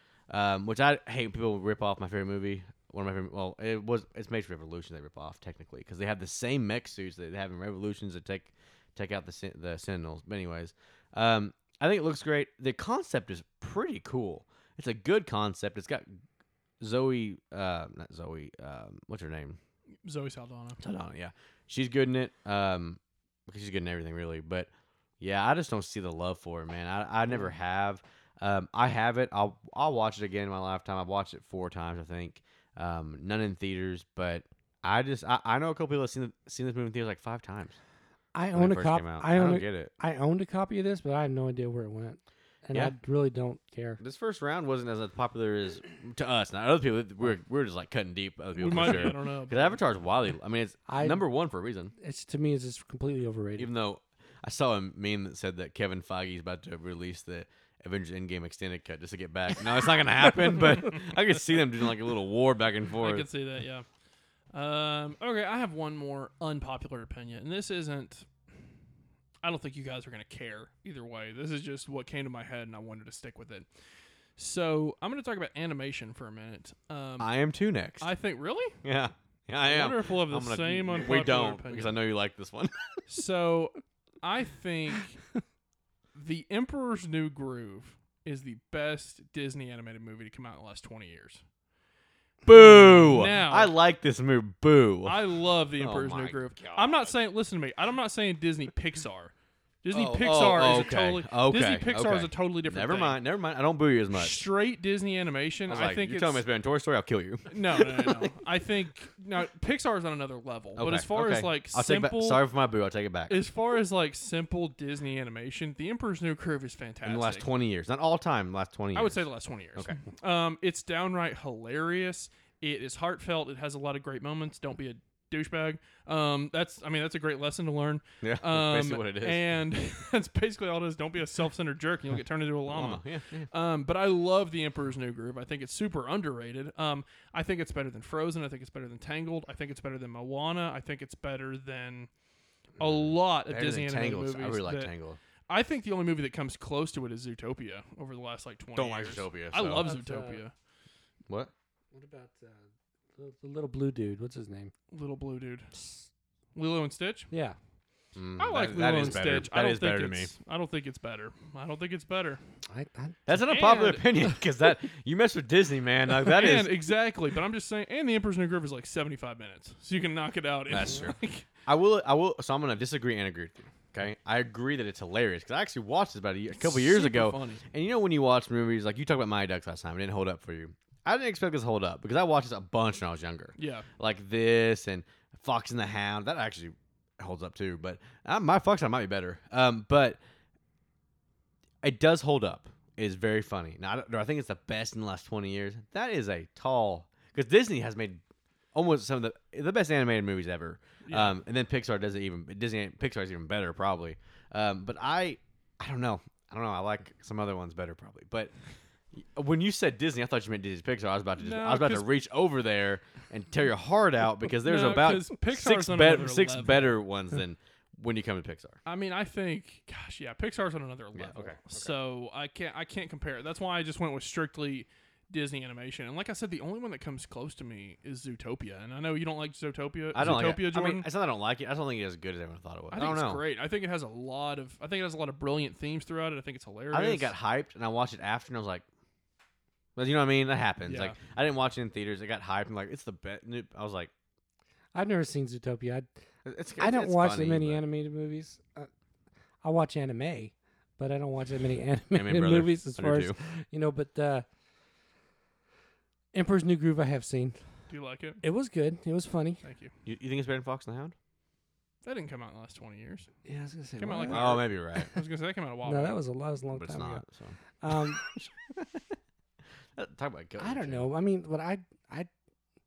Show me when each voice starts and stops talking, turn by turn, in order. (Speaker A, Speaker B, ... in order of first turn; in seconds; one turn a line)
Speaker A: 0.3-16.1
Speaker A: 16.8-19.6
Speaker B: 20.0-20.8
Speaker A: 20.8-24.7
Speaker A: 25.2-37.8
Speaker C: 38.4-44.0
Speaker A: 38.5-39.9
Speaker A: 44.0-51.9
Speaker B: 48.5-49.8
Speaker C: 48.8-49.0
Speaker C: 50.9-51.2
Speaker C: 52.0-53.7
Speaker A: 53.6-63.3
Speaker B: 63.0-63.9
Speaker B: 64.5-68.3
Speaker B: 69.4-73.7
Speaker B: 74.4-77.3
Speaker A: 77.2-78.1
Speaker B: 78.0-78.8
Speaker A: 78.8-82.7
Speaker B: 79.6-82.0
Speaker B: 83.1-85.2
Speaker B: 86.1-91.4
Speaker A: 92.5-95.2
Speaker B: 92.5-93.7
Speaker B: 95.0-99.3
Speaker A: 95.8-97.1
Speaker B: 99.8-103.2
Speaker A: 99.9-104.4
Speaker B: 104.1-106.5
Speaker A: 105.7-108.3
Speaker B: 107.5-112.4
Speaker A: 110.8-113.4
Speaker B: 113.3-117.5
Speaker A: 117.0-120.0
Speaker B: 118.9-142.1
Speaker A: 128.2-129.4
Speaker A: 132.7-133.5
Speaker B: 142.8-144.9
Speaker A: 142.8-145.2
Speaker B: 145.5-150.5
Speaker A: 148.8-149.9
Speaker C: 149.8-150.4
Speaker C: 151.9-152.6
Speaker C: 153.2-154.7
Speaker B: 154.9-155.7
Speaker B: 156.6-157.3
Speaker C: 157.3-157.6
Speaker A: 158.2-160.3
Speaker B: 158.4-162.4
Speaker C: 162.7-163.4
Speaker A: 163.3-166.8
Speaker B: 163.4-164.0
Speaker B: 166.2-171.4
Speaker A: 170.7-171.1
Speaker A: 171.7-190.2
Speaker B: 176.6-177.6
Speaker B: 183.6-183.9
Speaker A: 191.8-198.2
Speaker A: 198.7-208.5
Speaker B: 201.1-201.3
Speaker A: 209.1-218.8
Speaker B: 211.4-212.1
Speaker B: 214.6-217.0
Speaker B: 218.8-231.1
Speaker A: 221.1-221.9
Speaker A: 230.1-233.4
Speaker B: 232.9-237.3
Speaker A: 236.9-238.8
Speaker A: 239.9-244.1
Speaker B: 240.8-241.2
Speaker C: 244.9-246.1
Speaker A: 246.4-247.8
Speaker C: 246.8-248.9
Speaker C: 249.6-254.4
Speaker A: 252.1-253.4
Speaker C: 256.3-257.6
Speaker B: 257.9-258.4
Speaker C: 258.4-259.6
Speaker B: 259.6-259.9
Speaker A: 260.1-261.1
Speaker B: 262.0-263.3
Speaker C: 263.4-264.6
Speaker B: 264.0-266.2
Speaker A: 264.3-265.1
Speaker C: 265.9-267.2
Speaker A: 266.7-269.0
Speaker C: 267.8-268.4
Speaker A: 270.0-271.1
Speaker C: 270.6-272.3